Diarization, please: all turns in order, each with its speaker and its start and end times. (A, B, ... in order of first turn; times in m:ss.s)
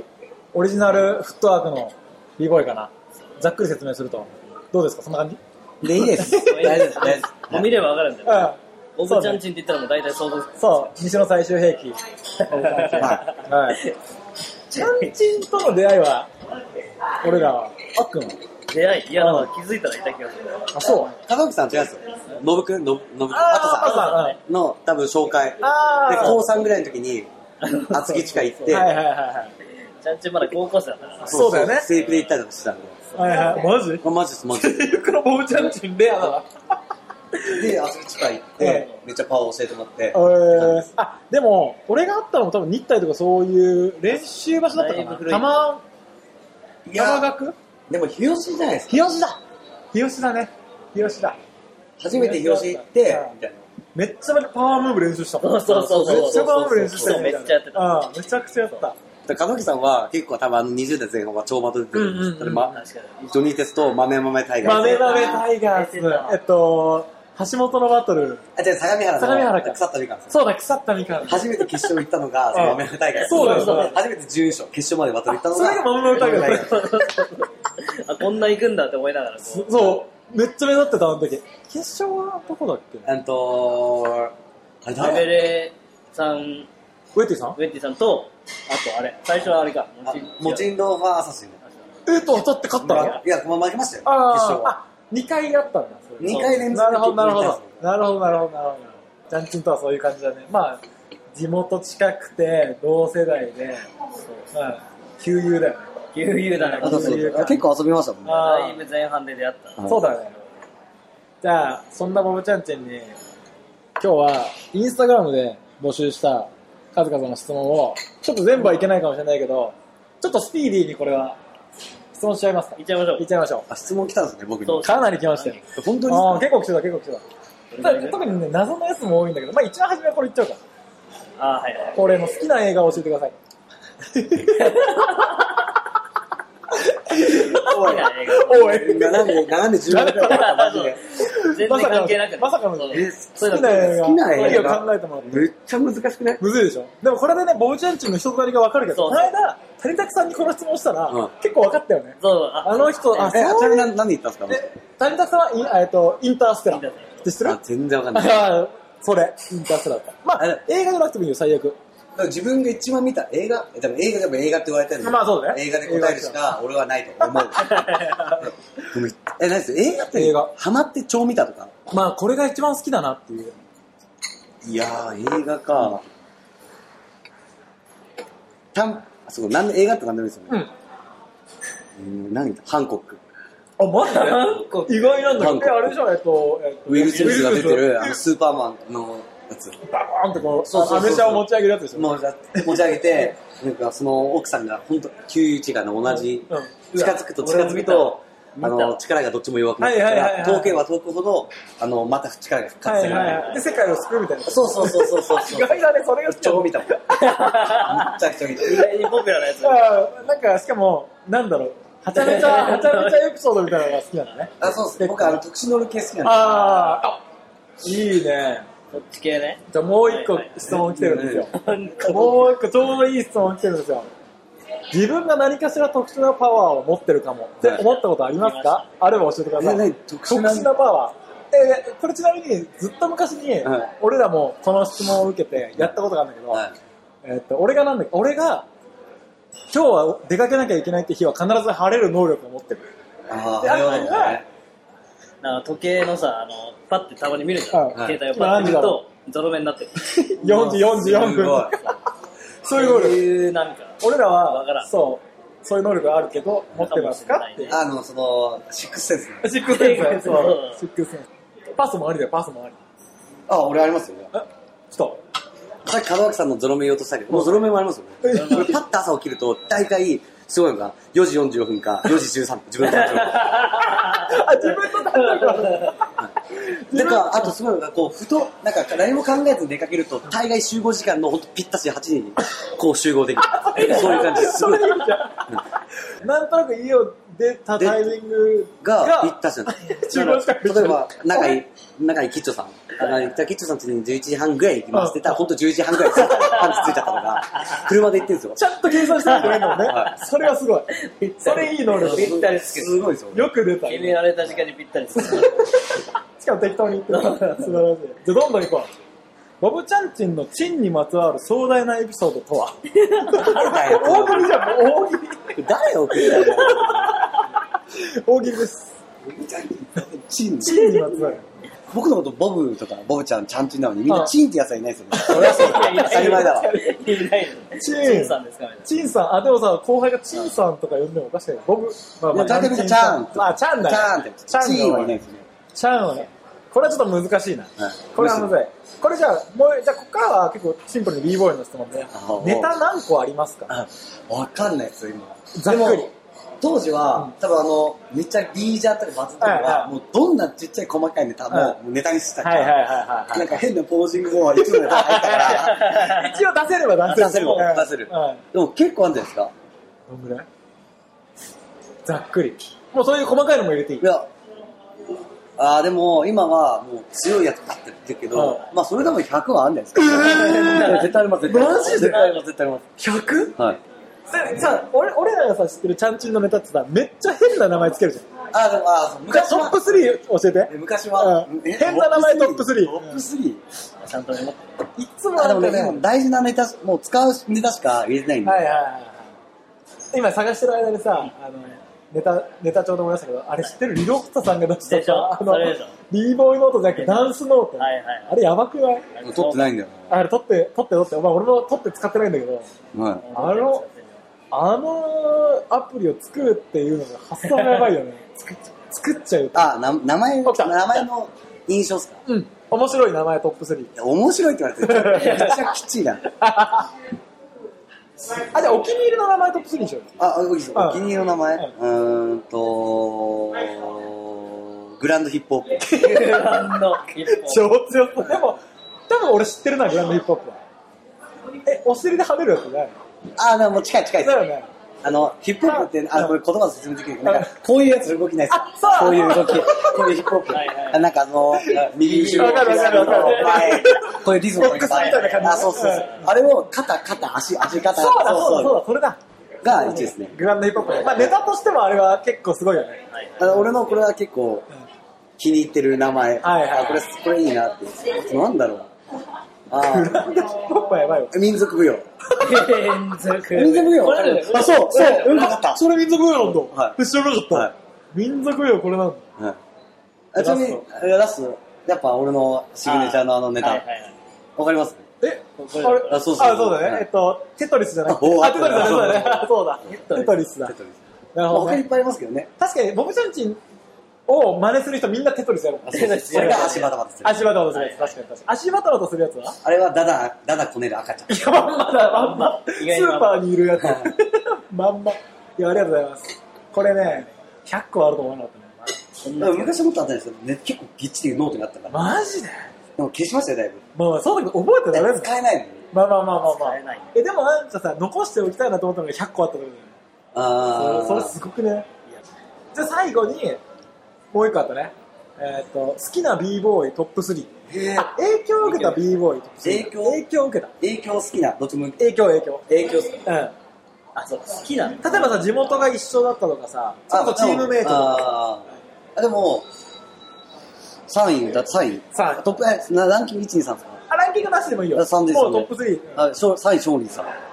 0:00.5-0:06.9 A
0:05.8-0:07.7 B
0:06.2-0:10.9 C
0:08.2-0:09.4 A
0:10.6-0:13.8 A
0:12.4-0:13.9 C
0:13.0-0:13.2 B
0:14.7-0:15.1 C
0:14.7-0:16.3 A
0:17.2-0:18.4 A
0:18.7-0:20.5 C
0:19.2-0:19.5 A
0:20.7-0:21.2 A
0:20.8-0:27.3 B
0:23.3-0:24.4 A
0:23.7-0:24.4 C
0:25.6-0:26.5 A
0:27.6-0:28.9 C
0:27.9-0:28.9 B
0:28.0-0:29.5 A
0:30.0-0:32.3 C
0:31.2-0:33.0 B
0:31.3-0:31.9 A
0:33.1-0:33.7 C
0:33.2-0:34.0 A
0:34.0-0:34.9 B
0:34.6-0:36.5 A
0:37.5-0:40.8 B
0:38.6-0:38.9 A
0:40.1-0:45.8 A
0:44.7-0:45.5 C
0:46.8-0:47.3 B
0:46.9-0:47.5 A
0:47.9-0:49.1 B
0:48.9-0:49.4 A
0:49.9-0:51.4 A
0:52.0-0:53.6 B
0:52.1-0:53.4 A
0:53.9-0:59.0 A
0:55.4-0:58.0 C
0:55.7-0:57.3 B
0:59.2-1:05.0 B
1:01.9-1:02.7 A
1:02.6-1:03.4 C
1:04.6-1:08.4 A
1:04.7-1:06.4 C
1:08.5-1:10.3 B
1:09.2-1:11.5 A
1:11.2-1:16.9 B
1:12.5-1:14.0 A
1:13.1-1:14.0 C
1:15.4-1:16.8 A
1:16.1-1:19.9 C
1:19.4-1:23.1 A
1:23.0-1:25.4 B
1:25.0-1:26.7 C
1:27.1-1:27.6 A
1:27.6-1:30.7 C
1:30.0-1:31.6 B
1:32.0-1:33.2 A
1:32.8-1:34.7 B
1:34.0-1:43.9 A
1:36.2-1:37.8 B
1:36.2-1:36.6 C
1:44.5-1:45.9 A
1:46.1-1:47.5 C
1:46.6-1:47.6 A
1:46.8-1:48.5 B
1:48.2-1:48.8 A
1:48.3-1:49.9 C
1:49.9-1:50.4 A
1:51.4-1:53.2 A
1:54.0-2:01.4 A
2:02.1-2:03.7 A
2:02.8-2:03.2 C
2:03.7-2:04.9 B
2:04.6-2:05.6 C
2:04.8-2:07.2 A
2:05.7-2:06.5 B
2:07.7-2:08.3 C
2:07.8-2:10.6 A
2:11.4-2:12.0 C
2:11.9-2:13.3 A
2:14.1-2:14.9 A
2:14.6-2:15.0 C
2:16.7-2:20.5 A
2:17.5-2:18.8 C
2:17.6-2:21.0 B
2:20.2-2:24.8 C
2:21.1-2:25.5 A
2:22.9-2:26.4 B
2:26.4-2:33.9 A
2:28.9-2:29.3 C
2:32.2-2:33.4 C
2:33.3-2:34.7 B
2:34.5-2:37.6 A
2:36.7-2:37.2 C
2:37.4-2:38.6 B
2:38.1-2:41.8 A
2:42.1-2:47.8 B
2:45.0-2:46.5 A
2:47.2-2:48.5 A
2:48.4-2:51.7 B
2:50.1-2:50.5 A
2:51.9-2:53.6 A
2:54.6-2:56.0 B
2:58.7-3:00.6 B
3:02.0-3:03.2 B
3:03.8-3:08.2 A
3:04.0-3:05.3 C
3:05.3-3:06.0 B
3:06.9-3:09.8 B
3:07.0-3:07.6 C
3:09.8-3:13.0 A
3:10.5-3:23.5 B
3:16.4-3:16.8 A
3:16.9-3:19.0 C
3:19.8-3:20.8 A
3:22.8-3:27.5 A
3:23.0-3:23.6 C
3:24.4-3:27.0 B
3:27.1-3:29.9 C
3:27.5-3:28.9 B
3:29.6-3:35.4 A
3:32.1-3:33.2 C
3:34.6-3:36.6 B
3:36.2-3:37.2 A
3:36.4-3:37.1 C
3:37.8-3:38.7 A
3:38.9-3:40.6 C
3:39.7-3:44.1 A
3:40.7-3:41.5 B
3:41.5-3:42.5 C
3:44.9-3:56.7 A
3:47.8-3:49.0 C
3:49.6-3:50.8 B
3:53.6-3:53.9 B
3:57.2-3:58.7 A
3:59.7-4:02.8 A
4:03.3-4:04.5 B
4:03.6-4:04.4 A
4:05.4-4:10.1 C
4:07.7-4:09.0 A
4:10.0-4:12.0 A
4:10.4-4:11.8 B
4:12.6-4:13.3 A
4:12.7-4:14.9 C
4:14.0-4:17.8 A
4:16.7-4:17.8 C
4:17.7-4:19.5 B
4:19.4-4:22.8 A
4:19.6-4:20.8 C
4:23.5-4:24.3 B
4:24.3-4:25.2 A
4:25.8-4:33.6 B
4:28.2-4:28.7 A
4:28.3-4:28.7 C
4:32.8-4:36.0 C
4:34.0-4:37.5 A
4:36.9-4:45.6 B
4:43.5-4:51.6 A
4:47.8-4:48.1 B
4:48.8-4:58.6 B
4:54.9-4:55.4 A
4:56.3-4:57.0 C
4:58.6-5:02.5 A
4:59.0-5:00.2 C
4:59.7-5:00.1 B
5:00.9-5:02.9 C
5:01.9-5:03.5 B
5:03.3-5:04.2 A
5:03.8-5:05.5 C
5:05.1-5:08.9 A
5:07.1-5:07.8 C
5:09.6-5:15.6 A
5:12.9-5:13.6 C
5:13.4-5:14.7 B
5:15.6-5:17.2 B
5:16.2-5:17.3 C
5:17.9-5:18.9 A
5:19.2-5:20.8 B
5:20.6-5:21.4 A
5:20.7-5:21.3 C
5:21.9-5:26.8 B
5:24.1-5:24.3 A
5:25.1-5:27.0 A
5:25.3-5:28.9 C
5:27.7-5:35.2 A
5:32.3-5:35.4 B
5:35.7-5:43.7 A
5:37.8-5:38.5 B
5:42.1-5:42.7 B
5:43.7-5:52.8 B
5:45.5-5:46.1 A
5:49.4-5:49.9 A
5:51.5-5:51.8 A
5:52.4-5:53.6 A
5:53.3-5:55.8 B
5:54.6-5:58.4 A
5:55.4-5:56.4 C
5:57.0-5:59.5 B
5:57.3-5:57.7 C
6:00.1-6:00.5 A
6:02.0-6:04.1 A
6:04.0-6:04.3 B
6:05.6-6:12.8 B
6:08.3-6:08.6 A
6:10.0-6:12.3 A
6:10.2-6:12.4 C
6:13.0-6:13.6 A
6:14.3-6:18.3 A
6:18.5-6:20.1 B
6:19.3-6:23.2 A
6:20.7-6:23.6 B
6:24.0-6:24.7 C
6:25.0-6:26.0 A
6:25.4-6:28.7 B
6:28.4-6:29.3 A
6:30.1-6:39.0 A
6:34.8-6:35.9 C
6:36.9-6:38.4 C
6:39.1-6:39.7 C
6:39.2-6:40.1 B
6:40.1-6:42.7 A
6:42.9-6:43.2 B
6:43.2-6:44.2 C
6:43.3-6:43.8 A
6:44.5-6:49.7 A
6:47.5-6:47.8 C
6:49.5-6:52.2 B
6:50.4-6:51.0 A
6:52.2-6:53.9 A
6:53.9-6:56.2 B
6:54.8-6:55.5 A
6:55.2-6:55.5 C
6:56.4-6:56.9 A
6:58.3-7:00.1 A
7:00.2-7:06.0 B
7:00.7-7:01.7 A
7:05.8-7:10.6 A
7:06.0-7:07.7 C
7:11.6-7:12.9 A
7:13.4-7:14.4 B
7:14.2-7:14.7 A
7:15.0-7:28.8 B
7:15.8-7:16.3 A
7:17.2-7:17.5 A
7:18.5-7:20.2 A
7:20.5-7:21.0 C
7:21.6-7:26.3 A
7:21.9-7:24.1 C
7:24.6-7:26.2 C
7:27.8-7:33.0 A
7:29.6-7:31.3 B
7:33.1-7:33.5 C
7:33.4-7:34.7 B
7:35.4-7:38.9 B
7:36.4-7:37.0 A
7:39.7-7:40.3 B
7:39.8-7:41.3 A
7:41.3-7:42.0 B
7:42.4-7:45.6 C
7:43.5-7:45.8 B
7:44.5-7:49.2 A
7:46.5-7:47.0 B
7:50.3-7:53.8 B
7:50.4-7:50.8 A
7:52.8-7:54.1 C
7:54.6-7:55.1 B
7:55.2-8:00.7 A
7:55.6-7:56.3 C
7:56.1-7:57.0 B
7:58.1-7:59.5 B
7:58.8-8:00.4 C
8:00.6-8:02.5 B
8:01.3-8:01.8 A
8:02.6-8:03.6 A
8:04.3-8:09.6 A
8:05.8-8:07.5 B
8:05.9-8:06.9 C
8:07.7-8:08.1 C
8:09.6-8:11.4 B
8:11.3-8:18.9 A
8:11.8-8:13.5 C
8:13.8-8:14.1 B
8:19.2-8:19.8 C
8:19.4-8:22.0 B
8:21.9-8:22.7 A
8:23.0-8:23.8 B
8:23.9-8:25.3 A
8:24.9-8:25.8 B
8:25.9-8:30.0 A
8:26.4-8:27.1 C
8:30.3-8:31.4 B
8:30.7-8:31.9 A
8:32.7-8:33.6 A
8:34.3-8:40.7 A
8:37.7-8:38.1 B
8:38.7-8:39.0 C
8:39.6-8:40.2 B
8:40.8-8:42.1 B
8:42.0-8:42.6 A
8:42.7-8:43.2 B
8:43.2-8:43.5 A
8:44.1-8:45.4 C
8:45.0-8:48.3 A
8:47.1-8:49.7 B
8:51.1-8:54.0 B
8:52.1-8:52.4 A
8:54.1-8:56.2 A
8:54.9-8:57.3 B